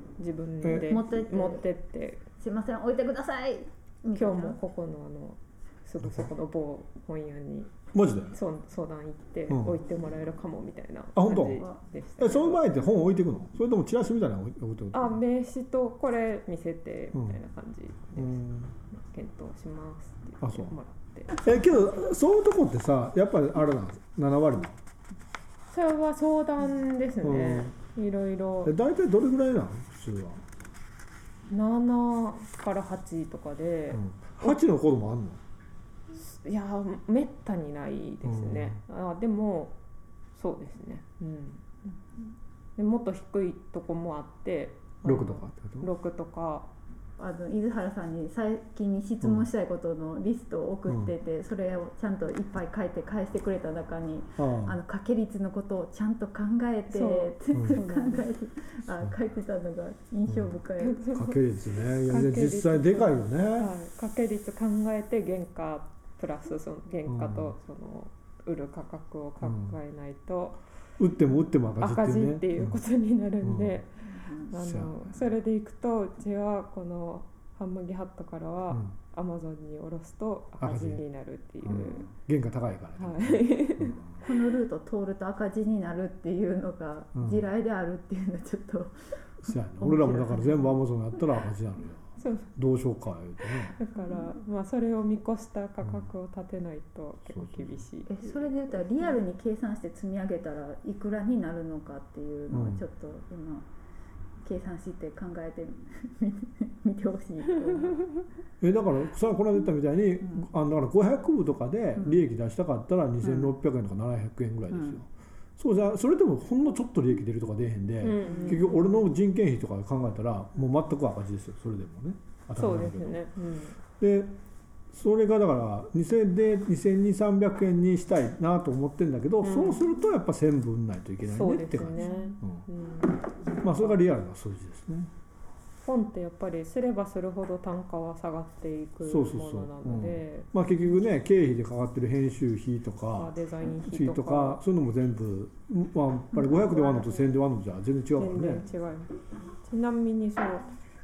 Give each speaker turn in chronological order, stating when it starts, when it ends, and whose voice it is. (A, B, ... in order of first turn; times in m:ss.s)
0:00.2-0:02.2 A
0:00.6-0:01.0 B
0:00.9-0:01.6 C
0:02.4-0:04.6 C
0:04.1-0:07.7 A
0:07.9-0:08.4 B
0:08.3-0:12.6 A
0:09.5-0:09.8 B
0:11.2-0:11.6 B
0:11.4-0:11.8 C
0:12.2-0:15.2 B
0:14.9-0:21.4 A
0:17.1-0:17.4 B
0:18.2-0:18.8 B
0:20.4-0:20.8 B
0:21.3-0:24.8 B
0:25.7-0:28.7 A
0:27.2-0:27.7 B
0:28.6-0:30.4 B
0:31.5-0:34.6 A
0:33.9-0:35.4 B
0:36.1-0:39.8 A
0:38.2-0:38.8 B
0:40.3-0:41.6 A
0:42.8-0:46.7 A
0:45.0-0:45.9 B
0:47.2-1:01.1 C
0:50.9-0:51.1 B
0:54.4-0:54.8 B
0:56.9-0:58.3 A
0:57.5-0:57.8 B
1:00.3-1:00.6 B
1:00.8-1:01.4 A
1:01.1-1:03.7 B
1:02.0-1:10.6 A
1:07.1-1:07.5 B
1:09.4-1:09.8 B
1:11.0-1:12.8 B
1:11.8-1:13.9 A
1:13.4-1:13.8 B
1:14.1-1:14.5 C
1:14.5-1:22.1 A
1:14.5-1:15.3 B
1:20.6-1:21.0 B
1:21.6-1:24.2 B
1:23.0-1:24.0 A
1:24.2-1:29.0 C
1:27.2-1:27.4 B
1:29.4-1:33.8 B
1:29.8-1:30.8 C
1:32.2-1:32.5 A
1:33.7-1:39.2 A
1:37.3-1:37.8 B
1:38.1-1:43.6 C
1:42.5-1:42.8 B
1:44.4-1:48.2 C
1:48.6-2:03.2 B
1:53.2-1:53.5 C
1:54.7-1:55.0 C
1:58.0-1:58.9 A
1:58.3-1:58.6 C
2:02.6-2:03.8 A
2:04.0-2:04.4 B
2:04.9-2:12.6 B
2:09.4-2:09.8 A
2:11.3-2:14.0 A
2:12.0-2:12.3 C
2:13.6-2:15.1 B
2:15.8-2:20.5 A
2:19.1-2:28.6 B
2:23.2-2:24.6 A
2:26.7-2:27.2 A
2:28.2-2:30.7 A